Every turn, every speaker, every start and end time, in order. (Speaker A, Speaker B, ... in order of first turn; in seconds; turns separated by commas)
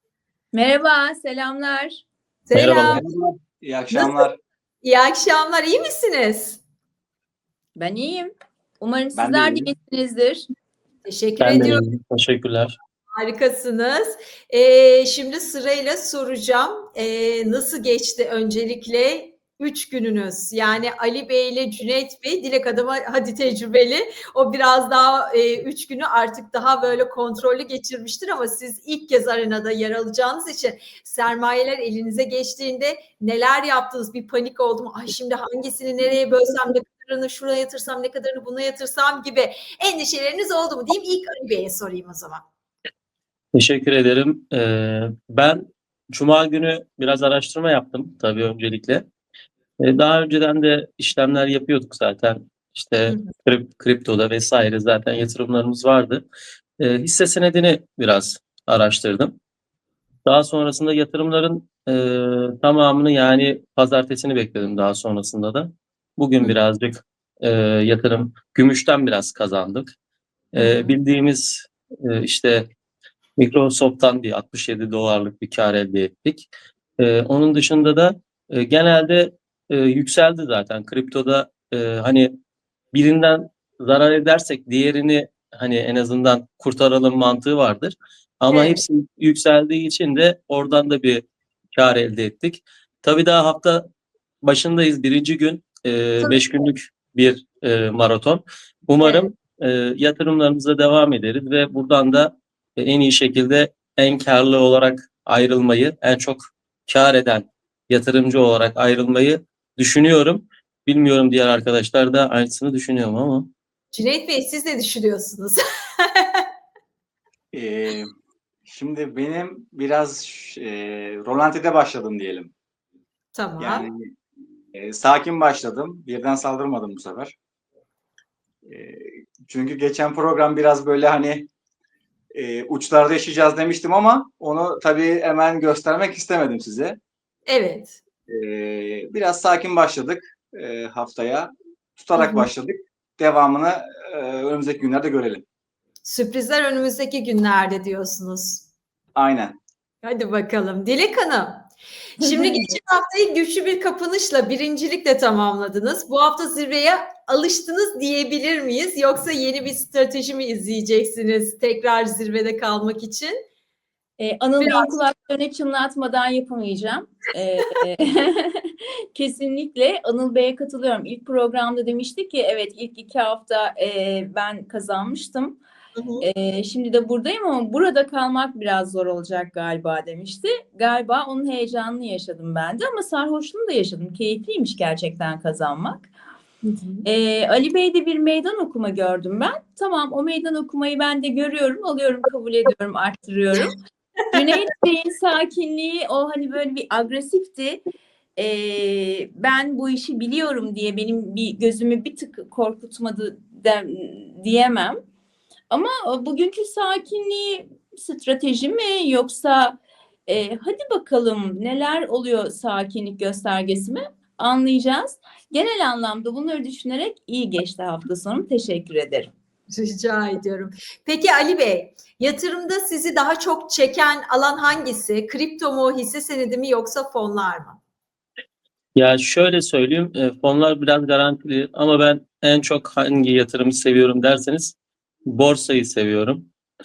Speaker A: 0.5-1.9, Speaker B: 2.5-3.0, Speaker C: 2.5-3.0, Speaker D: 2.8-4.4, Speaker B: 3.9-4.2, Speaker B: 4.8-6.6, Speaker A: 7.8-10.5, Speaker D: 9.1-9.7, Speaker B: 11.0-11.8, Speaker C: 11.4-12.7, Speaker B: 13.1-42.4, Speaker C: 43.5-49.0, Speaker C: 49.8-56.2, Speaker C: 56.8-59.3, Speaker C: 60.2-69.9, Speaker C: 70.5-72.7, Speaker B: 70.5-71.0, Speaker C: 73.4-82.3, Speaker C: 82.9-93.8, Speaker B: 88.5-88.8, Speaker C: 94.4-113.5, Speaker B: 99.0-99.3, Speaker B: 113.9-116.4, Speaker D: 117.5-118.1, Speaker D: 118.7-122.5, Speaker B: 123.3-123.9, Speaker D: 123.6-124.1, Speaker D: 124.7-127.3, Speaker D: 128.6-131.5, Speaker D: 132.3-137.0, Speaker B: 137.5-138.0, Speaker D: 138.3-145.4, Speaker B: 142.2-142.5, Speaker B: 146.0-148.7, Speaker D: 149.1-149.6, Speaker B: 150.0-163.3, Speaker A: 152.2-152.6, Speaker A: 164.2-175.6, Speaker B: 164.6-165.0, Speaker B: 175.9-176.3, Speaker A: 176.2-186.1, Speaker B: 186.6-187.1, Speaker A: 187.0-193.8, Speaker A: 194.3-197.8, Speaker A: 198.4-205.0, Speaker A: 205.7-219.3, Speaker B: 219.7-227.8, Speaker C: 228.9-234.8, Speaker C: 235.3-236.5